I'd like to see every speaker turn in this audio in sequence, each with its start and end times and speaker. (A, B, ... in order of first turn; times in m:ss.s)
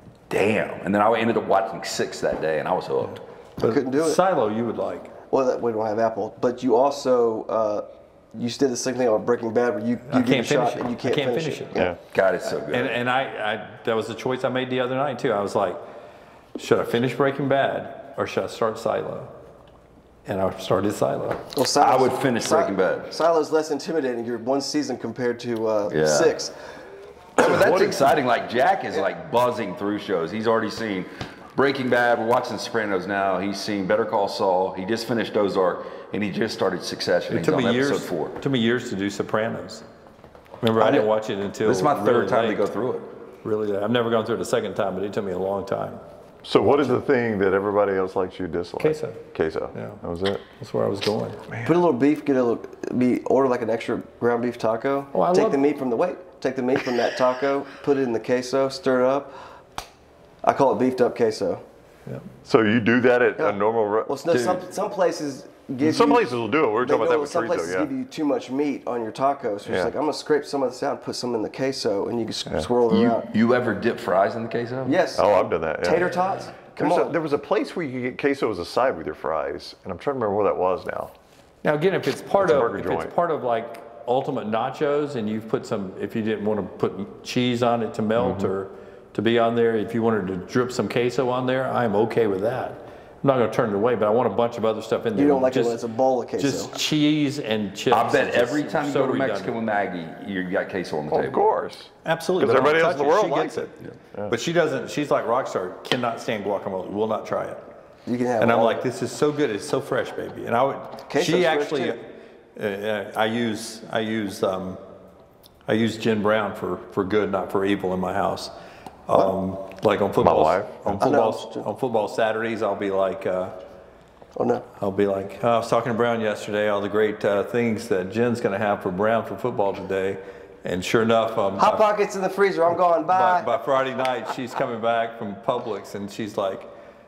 0:00.3-0:03.2 A
0:03.6-0:04.2 B
0:03.6-0:05.1 C
0:05.3-0:11.9 B
0:10.1-0:11.8 C
0:12.1-0:13.0 A
0:12.6-0:15.8 C
0:16.6-0:19.3 C
0:20.3-0:21.5 C
0:21.6-0:26.5 B
0:21.8-0:23.1 A
0:25.9-0:26.3 A
0:27.4-0:38.4 A
0:27.4-0:28.1 D
0:37.3-0:39.8 C
0:40.6-0:42.6 C
0:40.8-0:41.1 A
0:41.6-0:43.1 A
0:43.4-0:46.0 C
0:46.4-0:50.4 D
0:48.8-0:49.2 C
0:49.7-0:50.0 C
0:50.5-0:51.4 C
0:51.5-0:51.8 D
0:51.6-0:59.3 B
0:55.1-0:55.6 C
1:00.4-1:01.6 B
1:02.4-1:04.1 D
1:03.4-1:06.3 B
1:04.3-1:04.6 A
1:05.8-1:07.9 D
1:06.8-1:13.3 B
1:09.6-1:09.9 D
1:12.9-1:15.0 A
1:14.9-1:17.2 B
1:15.2-1:16.2 D
1:16.7-1:21.1 D
1:21.6-1:35.8 C
1:22.4-1:23.1 D
1:28.2-1:28.5 D
1:35.1-1:36.8 B
1:36.4-1:39.6 C
1:37.9-1:41.4 A
1:41.1-1:44.3 D
1:42.0-1:43.7 C
1:44.3-1:47.6 C
1:48.1-1:48.8 B
1:48.4-1:52.0 C
1:51.1-1:52.0 B
1:52.6-1:54.8 C
1:55.7-1:58.5 C
1:59.1-2:03.5 C
2:00.2-2:01.0 D
2:00.9-2:01.6 B
2:04.4-2:04.6 B
2:04.8-2:11.9 C
2:11.6-2:13.6 B
2:13.1-2:16.7 C